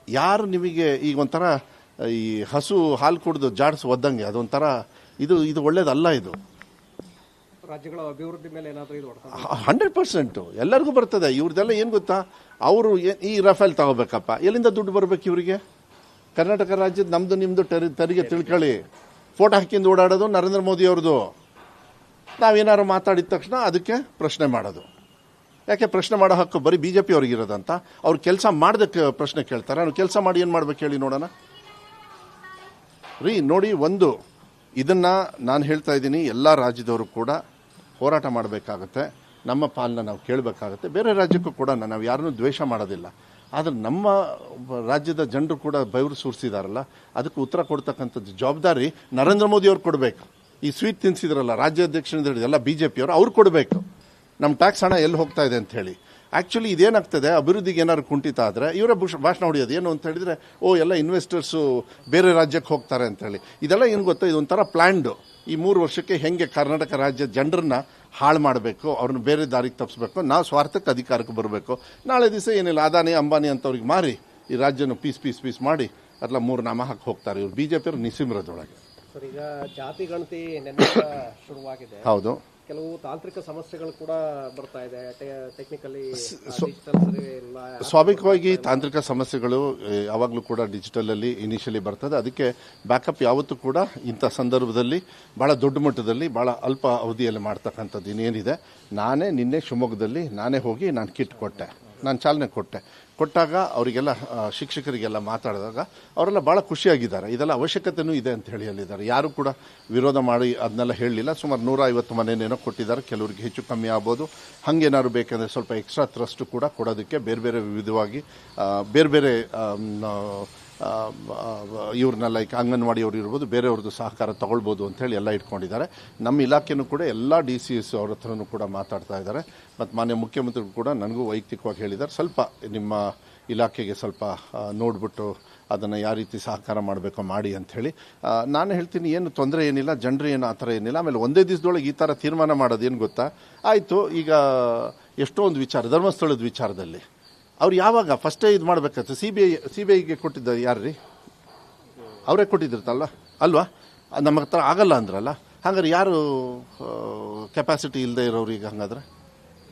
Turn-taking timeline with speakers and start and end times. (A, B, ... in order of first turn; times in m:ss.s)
0:00.2-0:06.4 A
0:07.7-0:09.6 B
0:09.3-0:15.6 A
0:16.4-0:18.8 A
0:19.4-0:21.3 A
0:22.4-0:24.9 A
0:25.7-0:31.3 A
0:33.2-0:34.2 A
0:34.8-0:37.4 A
0:38.0-0:53.9 A
0:54.4-1:18.8 A
1:19.1-1:22.1 B
1:22.0-1:22.4 A
1:22.7-1:29.1 B
1:26.2-1:26.7 A
1:27.8-2:27.0 A
2:27.6-2:31.0 A
2:32.3-2:39.0 A